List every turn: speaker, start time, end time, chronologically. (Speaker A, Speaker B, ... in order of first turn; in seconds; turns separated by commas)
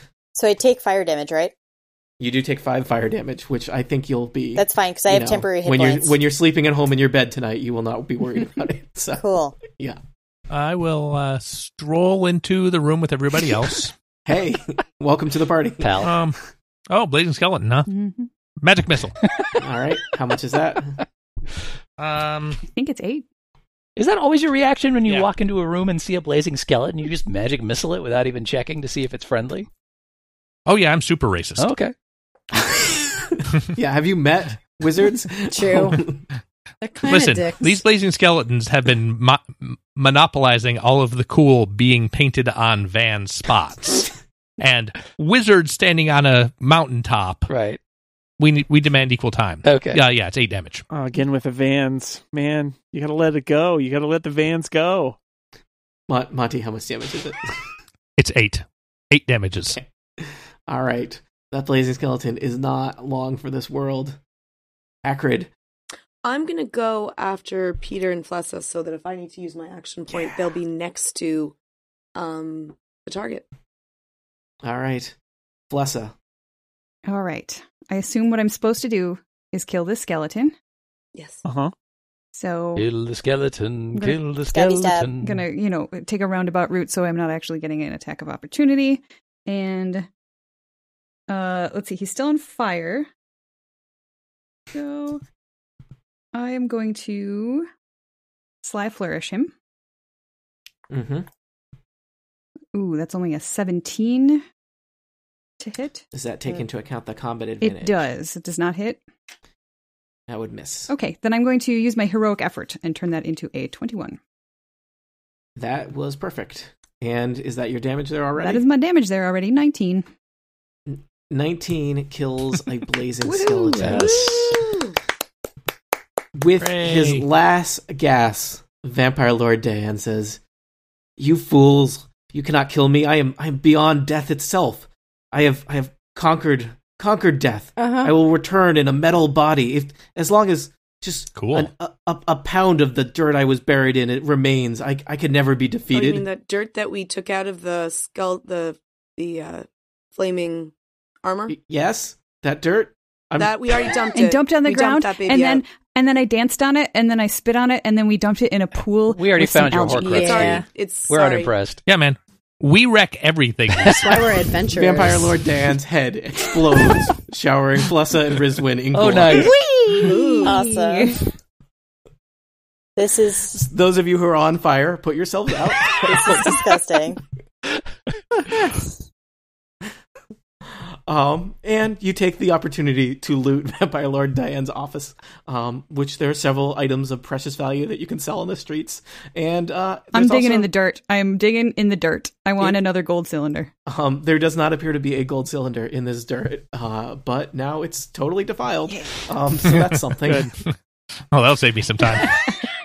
Speaker A: 0.4-1.5, Speaker B: 2.2-10.0, Speaker A: 4.5-6.2, Speaker A: 9.2-9.6, Speaker C: 10.5-13.9, Speaker B: 14.2-16.1, Speaker D: 15.8-16.2, Speaker C: 16.0-16.4, Speaker C: 16.9-17.9, Speaker E: 17.9-18.3, Speaker C: 18.6-19.2, Speaker B: 19.6-21.0, Speaker C: 22.0-22.6, Speaker E: 22.7-23.2, Speaker D: 23.9-29.7, Speaker C: 30.7-31.7, Speaker D: 31.6-31.9, Speaker B: 33.7-36.2, Speaker F: 35.5-36.0, Speaker F: 36.8-37.8, Speaker C: 37.0-47.5, Speaker D: 47.5-47.8, Speaker C: 48.4-50.8, Speaker D: 49.6-50.0, Speaker G: 50.9-55.2, Speaker B: 56.1-57.6, Speaker C: 58.2-59.8, Speaker B: 59.7-64.2, Speaker B: 65.0-65.5, Speaker H: 66.2-71.5, Speaker H: 72.1-73.5, Speaker B: 74.6-75.1, Speaker B: 75.7-76.1, Speaker E: 77.0-80.5, Speaker H: 81.1-81.4, Speaker G: 81.5-81.7, Speaker E: 82.3-82.9, Speaker D: 82.8-85.4, Speaker E: 83.9-84.2, Speaker A: 84.5-85.1, Speaker E: 85.2-90.1, Speaker E: 91.3-93.1, Speaker E: 94.7-95.2, Speaker E: 96.3-97.7, Speaker E: 98.6-99.5, Speaker B: 100.9-101.3, Speaker E: 102.7-104.4, Speaker E: 105.6-106.0, Speaker B: 106.1-108.0, Speaker E: 107.6-109.0, Speaker B: 110.3-110.9, Speaker E: 110.9-114.2, Speaker B: 115.6-118.6, Speaker E: 118.4-120.0, Speaker B: 120.9-124.2, Speaker E: 123.2-124.6, Speaker D: 123.8-124.6, Speaker H: 124.5-124.9, Speaker B: 126.3-130.4, Speaker C: 126.6-127.2, Speaker B: 131.2-146.2, Speaker F: 137.8-138.1, Speaker C: 141.3-141.7, Speaker H: 145.9-151.6, Speaker B: 151.5-154.0, Speaker H: 153.4-155.6, Speaker E: 154.1-160.4, Speaker D: 159.1-161.8, Speaker F: 159.9-160.6, Speaker H: 160.0-161.5, Speaker C: 161.9-164.3, Speaker D: 163.8-164.1, Speaker F: 163.8-165.4, Speaker B: 164.7-169.5, Speaker D: 168.9-169.6, Speaker F: 169.6-170.5, Speaker E: 169.9-171.2, Speaker H: 170.1-170.4, Speaker A: 170.4-171.2, Speaker A: 173.0-173.7, Speaker B: 173.5-176.7, Speaker A: 176.0-177.2, Speaker B: 180.7-190.7, Speaker E: 190.1-193.7, Speaker B: 193.9-200.5, Speaker G: 200.2-200.5, Speaker C: 201.3-202.3